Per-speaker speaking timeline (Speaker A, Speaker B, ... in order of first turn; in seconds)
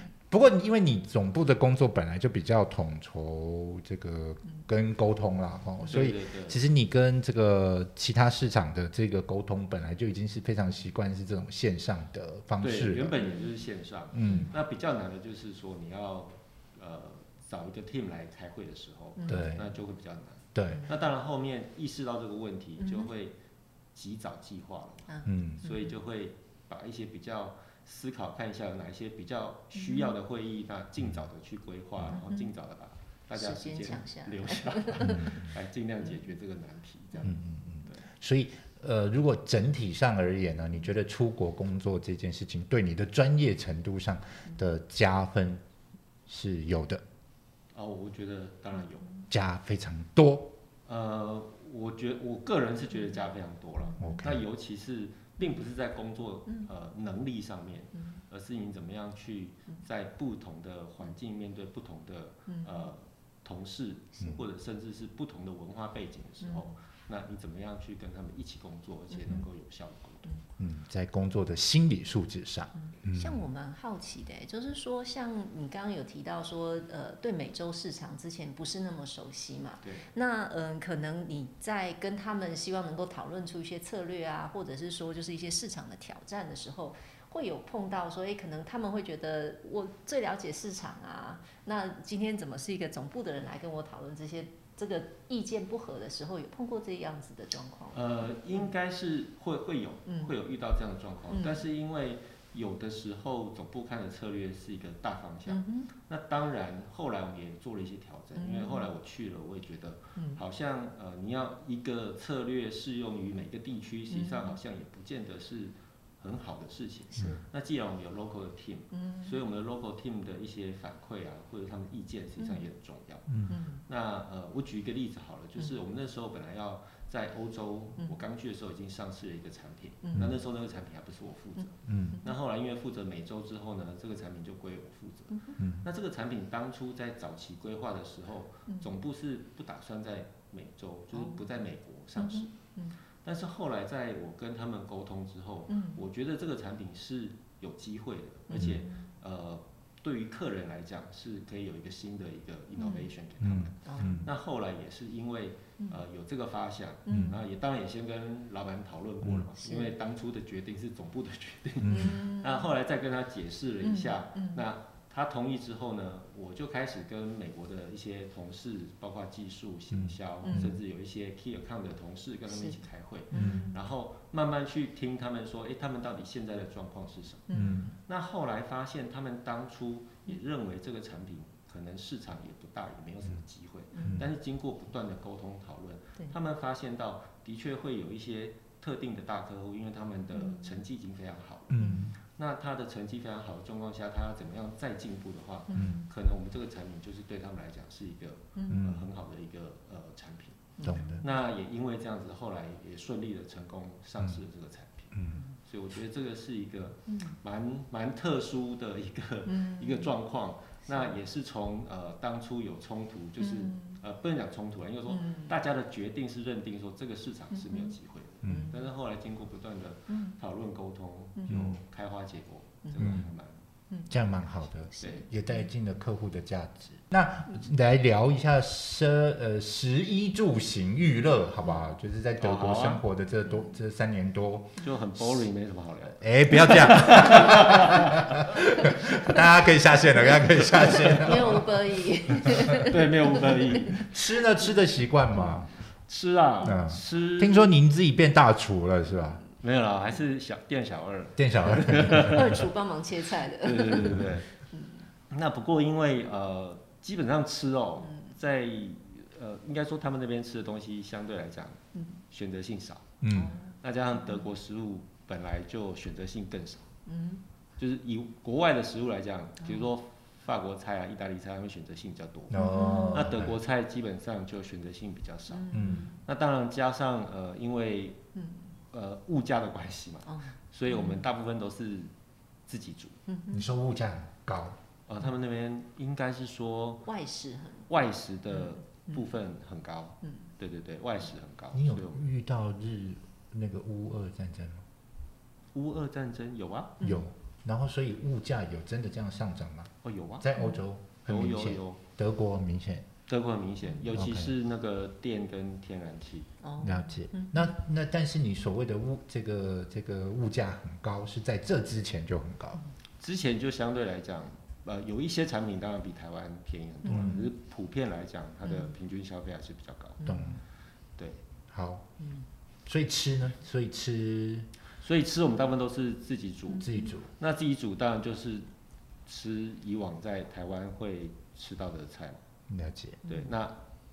Speaker A: 0.3-13.2, 14.1-14.5, 19.3-19.7, 20.6-20.9, 25.3-25.6, 35.0-35.5, 37.2-45.6, 46.3-47.0, 49.3-50.5, 54.0-54.4, 70.6-73.5, 123.3-123.5, 131.9-132.2, 135.6-135.8, 153.4-154.3, 157.1-157.4, 161.8-162.2, 169.9-170.8, 173.3-173.7, 177.5-177.9, 184.0-184.3, 191.7-192.1, 195.7-196.0, 198.7-199.1, 200.8-201.2, 205.1-205.4, 218.4-218.7, 221.5-221.8, 223.0-223.3, 224.1-234.8, 236.2-241.8, 242.3-242.8, 244.0-245.7, 246.6-249.4, 251.4-252.6, 263.2-263.6, 272.5-273.5, 275.7-276.1, 283.5-284.8, 291.7-294.9, 297.0-303.1, 304.1-304.5, 306.8-312.8, 317.1-317.4, 320.2-320.6, 321.7-322.1, 322.9-324.7, 326.8-327.3, 332.7-333.2
Speaker B: 5.9-6.6, 12.6-23.4, 23.9-38.0, 47.7-49.1, 50.9-70.3, 97.9-123.3, 123.9-142.6, 143.2-177.5, 178.1-205.1, 205.7-223.6, 225.0-225.3, 232.4-233.0, 234.8-238.5, 242.5-244.1, 246.1-247.7, 249.6-252.7, 253.6-254.5, 255.3-263.1, 263.8-266.9, 267.8-278.2, 278.9-282.1, 282.7-283.2, 285.1-287.1, 287.9-292.3, 295.7-297.0, 300.0-300.5, 301.3-302.0, 303.3-306.5, 313.2-320.2, 325.0-328.7, 329.3-332.4, 333.3-333.8
Speaker C: 19.2-19.5, 22.8-23.1, 25.1-25.8, 29.8-30.1, 32.2-32.5, 33.3-35.2, 72.9-98.0, 101.3-101.6, 105.5-105.9, 108.4-108.9, 110.2-110.4, 114.1-114.5, 117.1-117.4, 119.0-119.3, 123.5-123.8, 130.0-130.3, 141.1-141.4, 142.2-142.9, 145.7-146.0, 148.5-148.9, 152.8-153.1, 153.9-154.3, 157.1-157.3, 159.6-159.9, 161.9-162.7, 163.8-164.6, 170.4-170.7, 172.5-172.8, 173.3-173.8, 177.5-177.9, 183.9-184.2, 190.4-190.8, 191.8-192.1, 195.7-196.0, 198.6-198.8, 200.8-201.1, 207.1-207.4, 209.5-210.1, 213.4-213.9, 215.1-215.5, 218.4-218.8, 220.1-220.4, 225.0-225.3, 240.3-244.1, 252.1-255.1, 261.9-262.2, 263.3-263.7, 267.1-267.4, 272.5-273.2, 275.5-276.1, 278.4-278.7, 280.3-281.2, 283.3-283.6, 287.1-287.9, 288.6-289.2, 297.0-297.3, 306.6-307.7, 317.1-317.5, 318.7-318.9, 320.2-320.6, 322.2-322.5, 333.3-333.5